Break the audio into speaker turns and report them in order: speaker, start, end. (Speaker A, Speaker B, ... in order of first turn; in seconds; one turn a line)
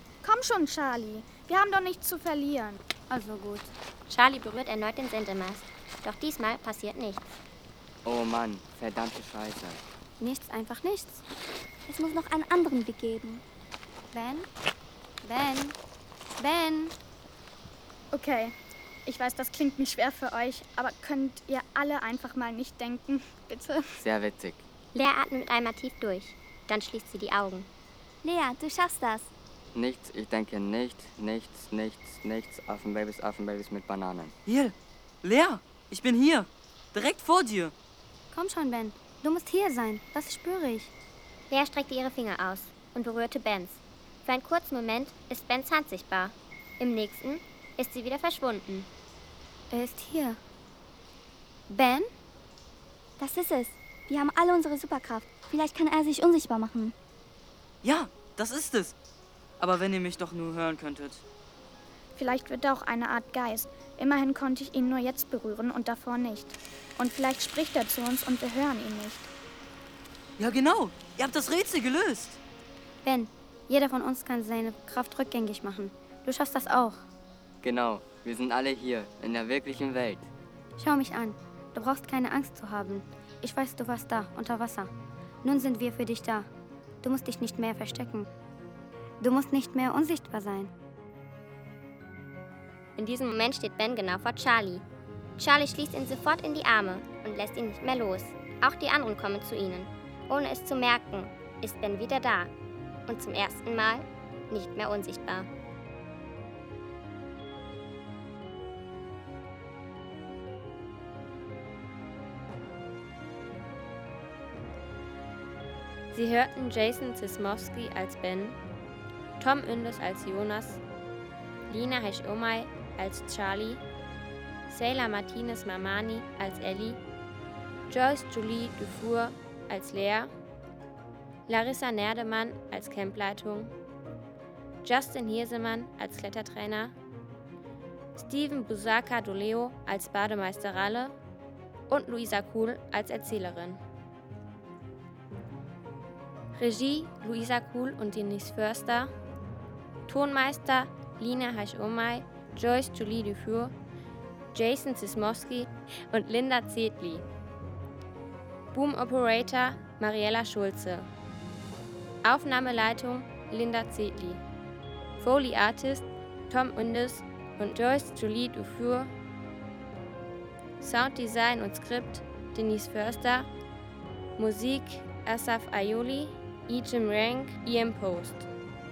Speaker A: 0.2-2.8
Speaker B: 3.1-3.7
Speaker C: 4.1-7.3
Speaker D: 8.1-9.8
Speaker B: 10.2-11.2
Speaker E: 11.9-13.4
Speaker B: 14.1-14.5
Speaker B: 15.2-15.8
Speaker B: 16.4-16.9
Speaker A: 18.1-18.5
Speaker A: 19.1-23.9
Speaker D: 24.0-24.6
Speaker C: 24.9-27.7
Speaker E: 28.2-29.3
Speaker D: 29.7-34.3
Speaker F: 34.5-37.7
Speaker B: 38.3-40.9
Speaker C: 41.5-48.9
Speaker B: 49.7-50.4
Speaker B: 51.7-52.1
Speaker E: 53.2-56.9
Speaker F: 57.8-59.0
Speaker F: 59.6-61.2
Speaker A: 62.2-69.3
Speaker F: 70.4-72.4
Speaker B: 73.0-77.0
Speaker D: 77.6-80.3
Speaker B: 80.8-84.9
Speaker B: 85.4-86.5
Speaker B: 87.0-88.3
Speaker B: 89.2-90.7
Speaker C: 93.0-94.8
Speaker C: 95.4-102.5
Speaker C: 103.1-105.5
Speaker C: 116.1-118.6
Speaker C: 119.4-120.8
Speaker C: 121.7-123.8
Speaker C: 124.7-127.0
Speaker C: 127.9-130.3
Speaker C: 131.5-133.7
Speaker C: 134.8-136.9
Speaker C: 138.2-141.1
Speaker C: 141.9-143.8
Speaker C: 146.6-149.1
Speaker C: 150.1-153.7
Speaker C: 154.5-157.2
Speaker C: 158.7-161.1
Speaker C: 162.2-164.4
Speaker C: 165.2-169.1
Speaker C: 170.8-173.5
Speaker C: 174.4-178.5